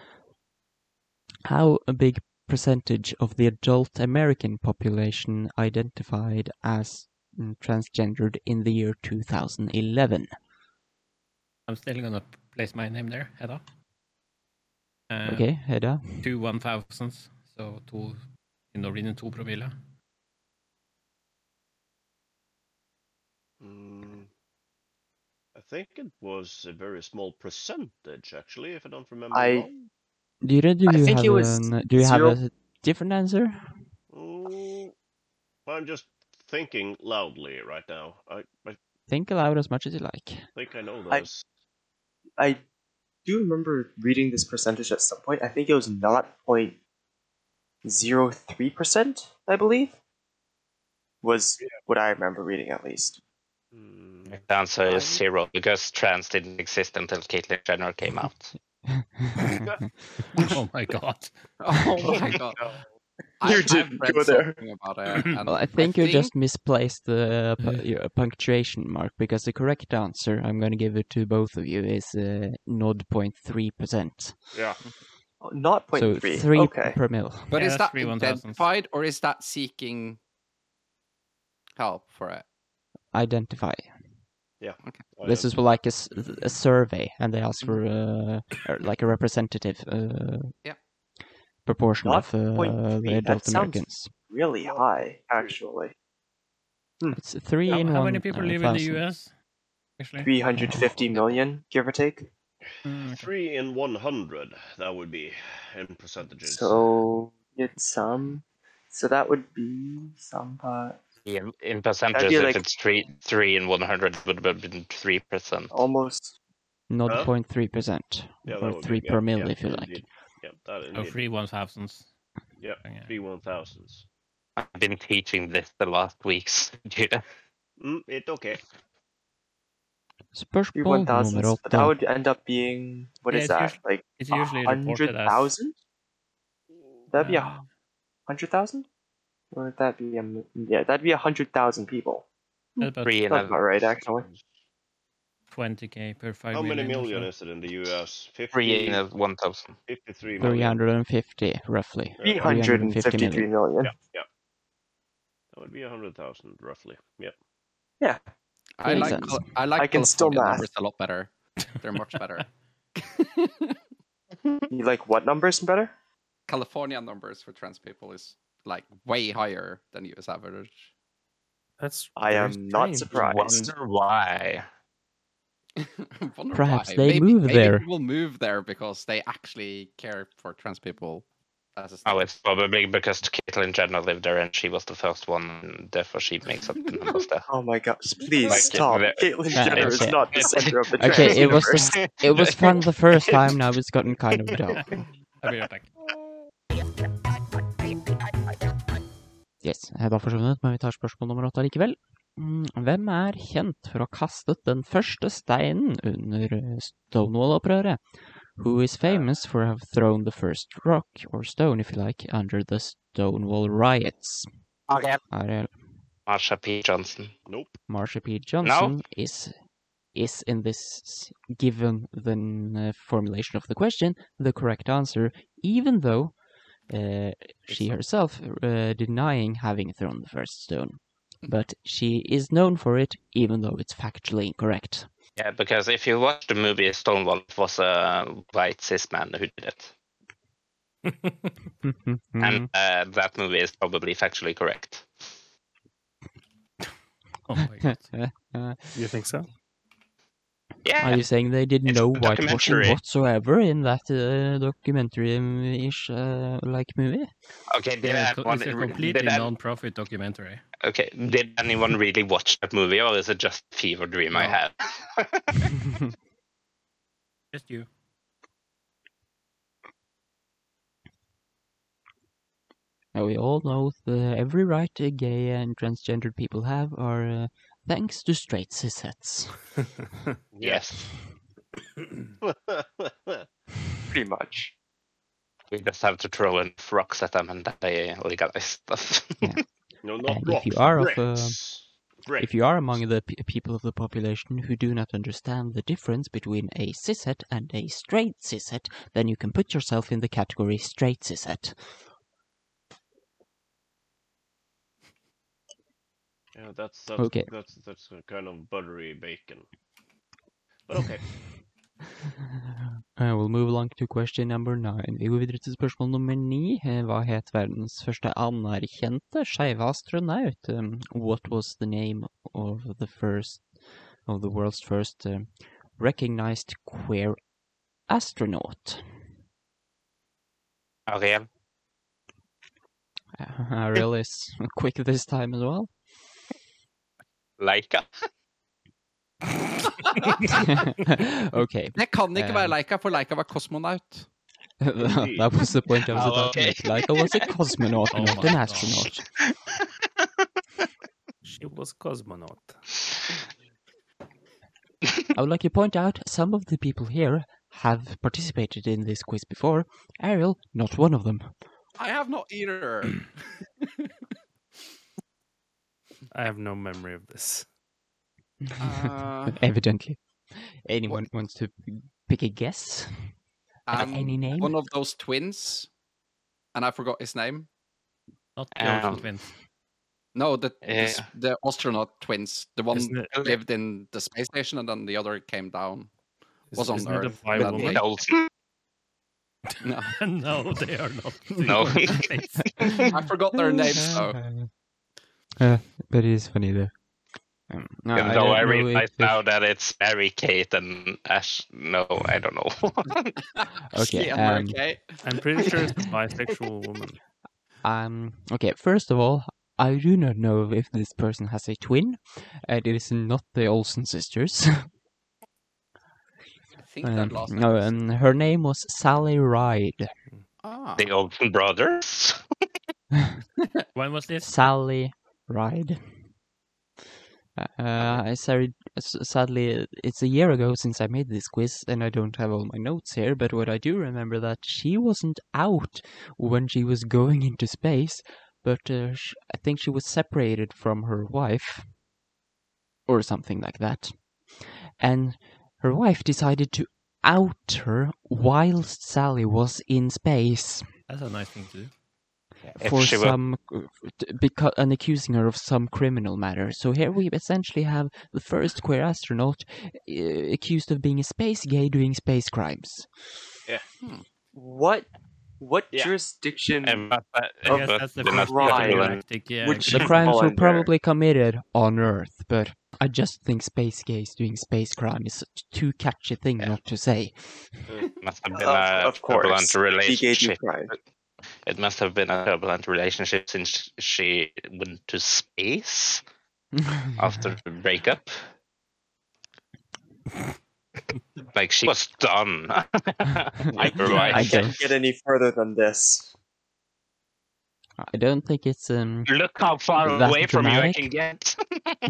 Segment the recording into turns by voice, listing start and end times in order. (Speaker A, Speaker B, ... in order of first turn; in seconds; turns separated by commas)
Speaker A: 1.5-10.3, Speaker B: 11.7-13.6, Speaker B: 15.1-15.5, Speaker A: 15.2-16.3, Speaker B: 16.2-19.7, Speaker C: 23.6-24.3, Speaker C: 25.6-29.9, Speaker D: 29.3-29.7, Speaker A: 30.4-33.9, Speaker D: 30.9-32.4, Speaker C: 34.1-34.9, Speaker C: 35.7-38.8, Speaker A: 39.1-40.5, Speaker C: 40.5-41.5, Speaker D: 43.3-46.8, Speaker D: 47.9-50.0, Speaker D: 51.2-53.2, Speaker C: 53.7-55.2, Speaker E: 54.3-58.5, Speaker A: 58.9-59.7, Speaker B: 60.4-61.4, Speaker F: 61.6-62.6, Speaker F: 63.4-66.3, Speaker D: 63.4-64.6, Speaker A: 65.5-74.5, Speaker C: 74.5-74.8, Speaker D: 75.4-77.0, Speaker A: 75.9-77.5, Speaker F: 77.5-80.2, Speaker B: 77.5-78.7, Speaker F: 81.8-82.5, Speaker A: 83.1-83.9, Speaker C: 84.6-85.5, Speaker F: 84.8-85.1, Speaker A: 85.2-90.5, Speaker A: 91.7-94.1, Speaker D: 92.0-95.9, Speaker C: 94.6-95.6, Speaker A: 97.1-99.1, Speaker B: 97.7-99.3, Speaker B: 100.0-101.4, Speaker D: 100.2-102.3, Speaker B: 102.8-103.3, Speaker C: 103.0-106.8, Speaker D: 106.5-111.0, Speaker E: 111.3-115.7, Speaker D: 112.1-112.6, Speaker D: 115.7-116.3, Speaker A: 116.9-120.0, Speaker C: 117.1-117.3, Speaker C: 118.5-121.2, Speaker B: 120.9-122.1, Speaker C: 122.6-124.1, Speaker B: 122.8-123.1, Speaker E: 124.6-127.2, Speaker C: 127.8-128.6, Speaker A: 130.3-132.0, Speaker D: 130.8-135.7, Speaker B: 133.3-135.5, Speaker C: 136.8-137.1, Speaker D: 137.1-137.5, Speaker B: 137.2-137.7, Speaker D: 138.3-138.9, Speaker D: 139.5-142.3, Speaker D: 142.8-144.3, Speaker B: 142.8-143.2, Speaker E: 143.0-143.6, Speaker C: 144.1-144.4, Speaker B: 145.5-147.3, Speaker C: 146.5-149.1, Speaker E: 148.5-149.8, Speaker C: 149.9-150.8, Speaker A: 150.4-153.5, Speaker C: 152.2-152.7, Speaker D: 152.2-154.0, Speaker C: 153.8-154.3, Speaker C: 155.5-157.3, Speaker F: 158.8-162.5, Speaker A: 158.8-159.5, Speaker D: 158.9-159.2, Speaker D: 159.8-160.7, Speaker F: 163.0-163.8, Speaker D: 164.7-165.9, Speaker F: 166.5-170.9, Speaker G: 171.8-173.2, Speaker D: 172.2-173.7, Speaker E: 173.1-174.7, Speaker F: 175.8-182.3, Speaker A: 176.5-177.9, Speaker E: 182.1-187.5, Speaker D: 187.5-192.0, Speaker E: 188.5-192.7, Speaker A: 189.5-190.3, Speaker A: 191.0-194.9, Speaker B: 195.4-195.9, Speaker A: 199.6-208.0, Speaker A: 208.6-214.5, Speaker E: 214.9-215.2, Speaker A: 215.3-215.8, Speaker E: 216.3-217.3, Speaker C: 217.5-217.8, Speaker A: 217.9-219.5, Speaker E: 218.6-218.9, Speaker A: 220.1-235.1, Speaker C: 227.7-228.0, Speaker E: 235.4-239.9, Speaker A: 241.8-242.7, Speaker E: 242.4-245.1, Speaker B: 247.5-248.2, Speaker A: 247.8-249.0, Speaker G: 248.9-249.5, Speaker E: 250.8-253.0, Speaker A: 251.0-257.3, Speaker E: 257.7-259.5, Speaker B: 258.0-260.6, Speaker E: 260.8-265.5, Speaker B: 267.5-267.9, Speaker A: 273.1-279.8, Speaker C: 280.5-281.1, Speaker E: 280.6-281.1, Speaker C: 282.4-283.5, Speaker D: 284.1-284.7, Speaker E: 285.7-289.5, Speaker C: 290.0-293.0, Speaker A: 290.2-291.6, Speaker A: 292.4-302.1, Speaker C: 306.6-309.7, Speaker A: 307.2-307.5, Speaker C: 310.9-311.6, Speaker A: 313.2-327.4, Speaker A: 328.1-329.0, Speaker E: 331.1-331.5, Speaker A: 333.4-336.0, Speaker E: 337.6-338.1, Speaker A: 340.9-342.8, Speaker F: 342.0-344.3, Speaker A: 344.8-349.2, Speaker C: 345.0-345.5, Speaker E: 346.1-347.4, Speaker B: 348.1-349.0, Speaker G: 351.4-352.8, Speaker A: 355.3-361.6, Speaker F: 362.0-363.3, Speaker G: 366.3-367.7, Speaker F: 368.8-369.6, Speaker A: 369.5-373.4, Speaker F: 373.9-375.9, Speaker A: 373.9-374.8, Speaker F: 376.8-377.7, Speaker B: 378.6-379.5, Speaker E: 378.8-379.3, Speaker F: 380.4-386.1, Speaker E: 380.8-381.3, Speaker G: 382.9-383.4, Speaker E: 383.3-383.6, Speaker G: 386.7-388.0, Speaker F: 386.7-388.0, Speaker E: 387.5-388.5, Speaker F: 389.8-390.2, Speaker B: 390.1-393.1, Speaker E: 391.6-392.2, Speaker F: 393.1-394.4, Speaker A: 393.7-394.7, Speaker A: 395.6-396.9, Speaker A: 397.7-399.4, Speaker E: 398.1-403.3, Speaker F: 403.6-406.0, Speaker A: 403.9-404.8, Speaker G: 405.2-407.2, Speaker A: 407.8-414.9, Speaker F: 416.8-418.1, Speaker A: 417.0-420.1, Speaker F: 420.6-421.1, Speaker E: 421.0-422.4, Speaker B: 423.9-424.7, Speaker A: 424.4-426.3, Speaker A: 427.6-441.9, Speaker A: 443.1-450.9, Speaker B: 451.1-451.9, Speaker A: 452.7-463.4, Speaker E: 452.8-453.4, Speaker D: 464.5-465.1, Speaker D: 465.6-467.1, Speaker E: 466.8-469.2, Speaker D: 467.7-470.9, Speaker B: 467.7-470.3, Speaker A: 469.9-477.8, Speaker E: 478.2-481.0, Speaker D: 478.5-480.9, Speaker E: 481.7-486.2, Speaker A: 486.8-487.5, Speaker E: 487.2-488.4, Speaker E: 491.5-494.8, Speaker D: 494.0-496.3, Speaker A: 494.1-494.8, Speaker A: 498.0-499.3, Speaker E: 499.3-502.0, Speaker A: 499.9-501.1